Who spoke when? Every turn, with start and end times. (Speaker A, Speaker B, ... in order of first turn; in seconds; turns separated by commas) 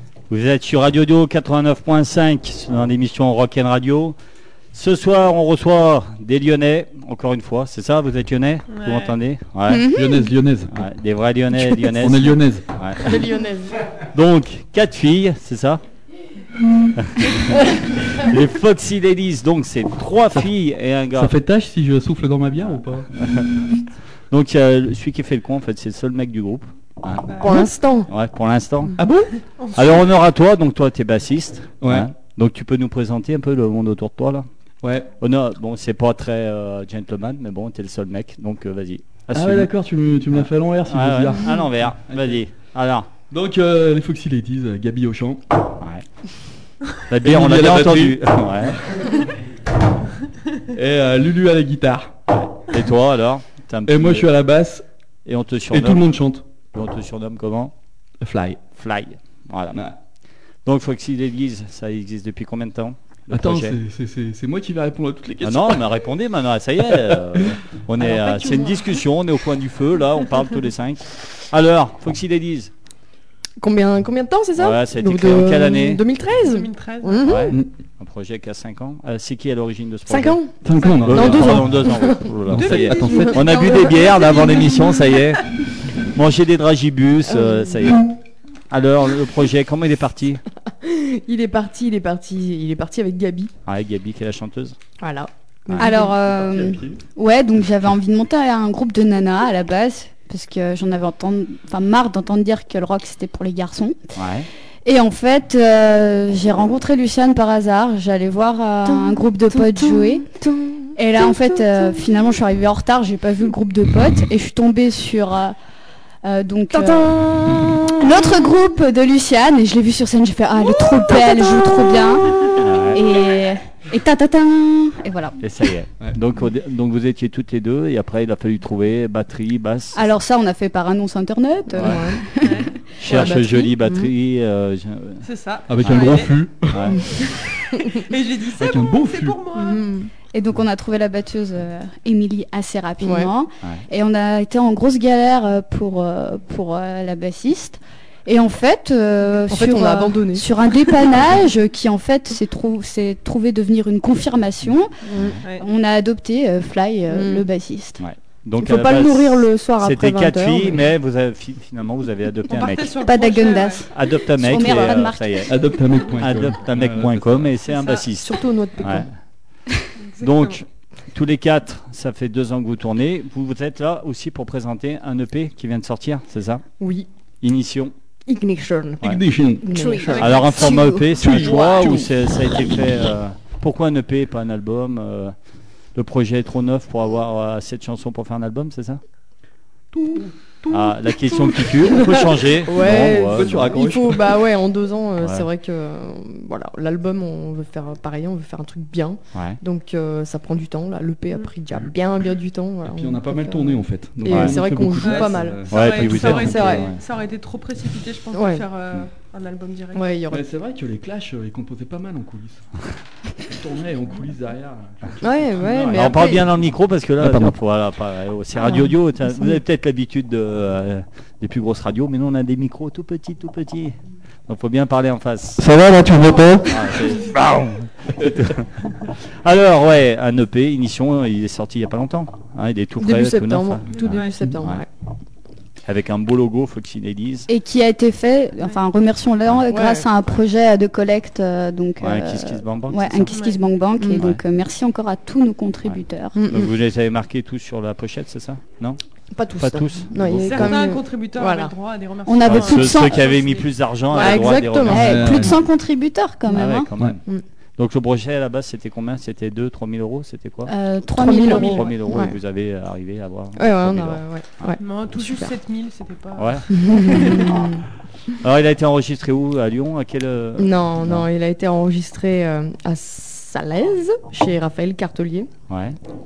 Speaker A: 0.3-4.2, Speaker A: 4.7-9.9, Speaker B: 8.7-9.2, Speaker C: 9.7-10.2, Speaker D: 9.9-10.8, Speaker A: 10.7-13.1, Speaker D: 11.7-12.7, Speaker E: 13.0-13.8, Speaker A: 14.1-15.8, Speaker A: 17.0-21.3, Speaker D: 21.1-23.1, Speaker A: 22.6-23.8, Speaker A: 24.3-27.2, Speaker B: 27.2-27.6, Speaker E: 27.4-28.1, Speaker A: 28.1-29.0, Speaker D: 29.0-29.3, Speaker B: 29.6-30.1, Speaker A: 29.7-34.5, Speaker D: 31.8-32.1, Speaker D: 34.8-35.1, Speaker A: 35.2-39.7, Speaker D: 39.3-42.4, Speaker A: 40.3-43.1, Speaker D: 43.3-45.4, Speaker A: 45.8-46.0, Speaker A: 47.0-49.1, Speaker D: 47.2-49.1, Speaker D: 50.7-52.1, Speaker A: 52.3-54.3, Speaker D: 53.9-54.8, Speaker A: 55.2-56.1, Speaker D: 55.7-56.4, Speaker A: 56.7-57.7, Speaker D: 58.2-58.6, Speaker A: 58.8-59.9, Speaker A: 60.6-63.8, Speaker D: 63.3-66.0, Speaker A: 65.4-72.7, Speaker D: 66.9-67.5, Speaker E: 68.0-69.0, Speaker E: 73.6-77.5, Speaker A: 74.6-76.0, Speaker B: 76.3-77.5, Speaker A: 77.2-88.1, Speaker E: 80.1-82.3, Speaker D: 80.6-81.8, Speaker D: 82.5-83.5, Speaker B: 82.5-85.2, Speaker E: 83.0-83.9, Speaker E: 87.3-87.8, Speaker A: 88.7-90.4, Speaker E: 90.8-93.5, Speaker A: 93.7-94.8, Speaker E: 95.0-96.1, Speaker C: 95.8-104.0, Speaker D: 96.0-97.0, Speaker A: 104.2-104.5, Speaker C: 104.8-110.2, Speaker E: 108.8-112.1, Speaker C: 111.0-115.5, Speaker C: 116.2-125.4, Speaker E: 116.7-118.5, Speaker A: 122.5-123.0, Speaker A: 125.4-130.0, Speaker C: 129.9-133.6, Speaker A: 131.8-135.2, Speaker E: 131.8-132.3, Speaker B: 132.4-132.8, Speaker E: 133.1-134.1, Speaker B: 135.2-136.4, Speaker D: 135.7-137.3, Speaker A: 135.8-137.0, Speaker B: 137.1-139.8, Speaker E: 137.7-138.0, Speaker D: 138.6-139.4, Speaker E: 139.5-140.1, Speaker C: 140.3-155.0, Speaker E: 143.0-143.3, Speaker E: 149.5-150.5, Speaker E: 155.0-155.4, Speaker B: 155.4-155.7, Speaker C: 155.6-158.0, Speaker E: 157.1-157.4, Speaker A: 158.0-162.9, Speaker E: 158.6-160.8, Speaker B: 162.5-163.9, Speaker C: 163.0-165.7, Speaker A: 163.9-169.1, Speaker E: 164.5-165.0, Speaker D: 165.5-167.6, Speaker B: 167.7-168.1, Speaker E: 168.1-169.1, Speaker B: 170.0-170.6, Speaker A: 170.2-176.6, Speaker E: 176.8-177.1, Speaker A: 177.4-177.9, Speaker E: 178.3-180.3, Speaker D: 179.0-179.7, Speaker C: 179.6-182.1, Speaker A: 180.2-185.3, Speaker B: 180.2-180.5, Speaker D: 181.1-182.0, Speaker A: 185.9-189.0, Speaker D: 189.9-191.7, Speaker A: 190.7-193.6, Speaker E: 191.9-205.7, Speaker D: 192.8-194.3, Speaker A: 195.2-195.4, Speaker D: 202.8-206.6, Speaker A: 204.3-204.5, Speaker B: 205.0-210.0, Speaker A: 205.7-207.0, Speaker E: 206.4-206.8, Speaker E: 208.3-208.6, Speaker E: 209.9-210.4, Speaker D: 210.3-212.8, Speaker D: 213.4-216.7, Speaker E: 215.2-216.4, Speaker A: 215.9-223.9, Speaker D: 217.2-217.6, Speaker E: 218.6-219.6, Speaker A: 224.5-225.7, Speaker D: 225.6-227.2, Speaker A: 226.6-234.8, Speaker E: 233.0-234.9, Speaker B: 233.9-234.4, Speaker A: 235.8-237.5, Speaker C: 237.5-246.3, Speaker E: 239.7-240.1, Speaker A: 242.0-243.3, Speaker B: 243.3-243.6, Speaker E: 244.0-244.2, Speaker E: 246.3-246.7, Speaker A: 246.5-249.0, Speaker E: 249.3-251.7, Speaker A: 249.6-250.8, Speaker B: 250.3-254.5, Speaker C: 252.2-253.3, Speaker A: 252.4-255.6, Speaker E: 254.1-255.2, Speaker D: 254.8-255.6, Speaker C: 254.9-256.9, Speaker A: 256.5-257.2, Speaker A: 257.8-260.7, Speaker C: 260.7-261.9, Speaker E: 261.2-262.4, Speaker A: 261.3-264.8, Speaker E: 263.6-265.5, Speaker B: 264.8-267.7, Speaker A: 266.4-267.4, Speaker E: 266.8-267.8, Speaker A: 268.3-271.3, Speaker E: 270.6-275.5, Speaker A: 275.7-276.0